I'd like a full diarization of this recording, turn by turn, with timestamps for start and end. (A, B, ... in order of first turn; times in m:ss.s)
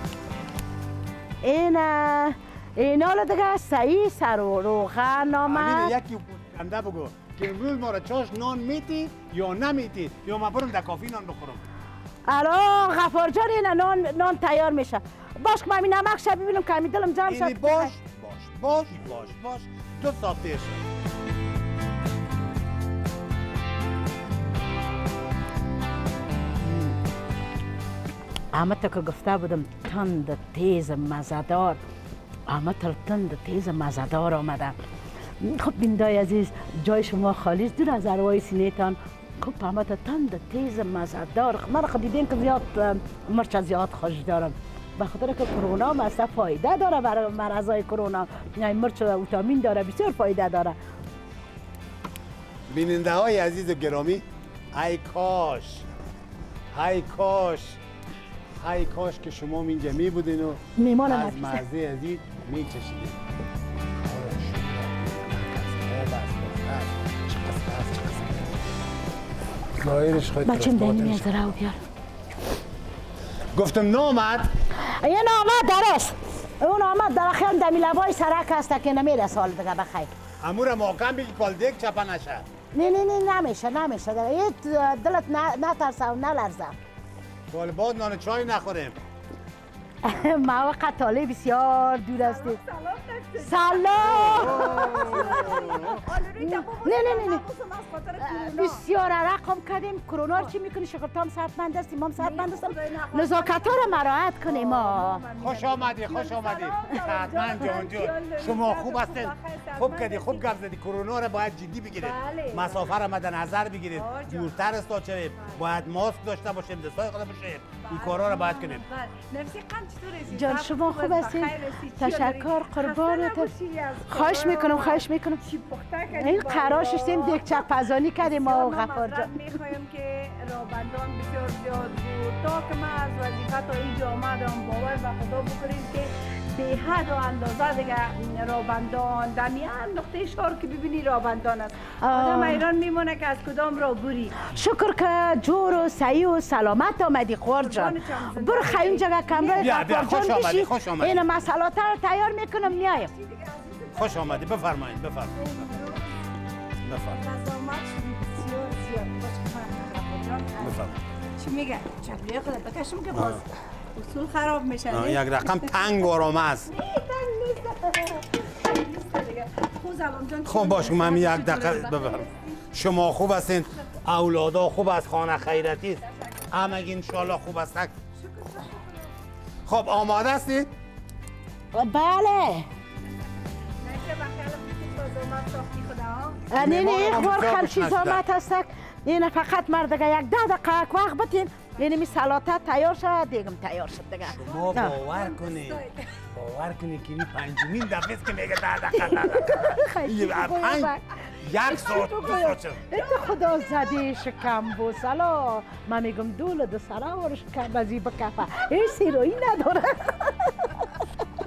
0:01.4-0:05.9 A
0:05.4-0:11.6 B
0:12.3-0:17.9 A
0:17.3-0:20.8 B
0:28.5-0:31.8 A
0:32.5-0:34.7 A
0:35.4-0:50.8 A
0:52.7-0:54.2 B
0:54.7-0:55.8 B
0:56.7-0:57.8 B
0:58.6-1:03.2 B
1:00.8-1:01.6 A
1:04.0-1:08.6 B
1:09.8-1:11.3 B
1:10.4-1:11.8 A
1:13.5-1:14.5 B
1:14.8-1:20.1 A
1:20.4-1:22.4 B
1:22.7-1:26.7 A
1:27.5-1:29.0 B
1:30.0-1:32.6 A
1:32.2-1:38.8 C
1:33.4-1:37.4 A
1:34.0-1:36.0 B
1:38.2-1:45.2 A
1:42.2-1:50.4 C
1:45.4-1:58.8 B
1:52.0-1:52.9 C
1:53.9-1:54.6 C
1:55.3-1:55.8 C
1:57.8-2:24.4 C
2:00.3-2:03.5 A
2:04.1-2:05.4 A
2:06.1-2:09.3 A
2:22.0-2:22.6 A
2:24.4-2:33.1 A
2:27.6-2:29.7 C
2:29.6-2:31.2 B
2:32.6-2:34.5 C
2:34.0-2:35.7 B
2:35.4-2:36.2 C
2:36.8-2:37.2 B
2:37.1-2:46.1 C
2:40.6-2:40.9 B
2:43.1-2:43.4 B
2:44.9-2:46.7 B
2:46.7-2:52.7 C
2:50.4-2:57.9 B
2:55.4-2:57.4 C
2:58.2-2:59.1 C
2:59.6-3:00.7 B
3:01.7-3:02.6 A
3:03.8-3:06.5 C
3:06.5-3:15.0 A
3:06.6-3:08.2 B
3:14.3-3:15.8 B
3:14.4-3:16.2 C
3:16.3-3:22.8 B
3:19.0-3:21.1 A
3:21.6-3:30.8 A
3:22.9-3:23.8 C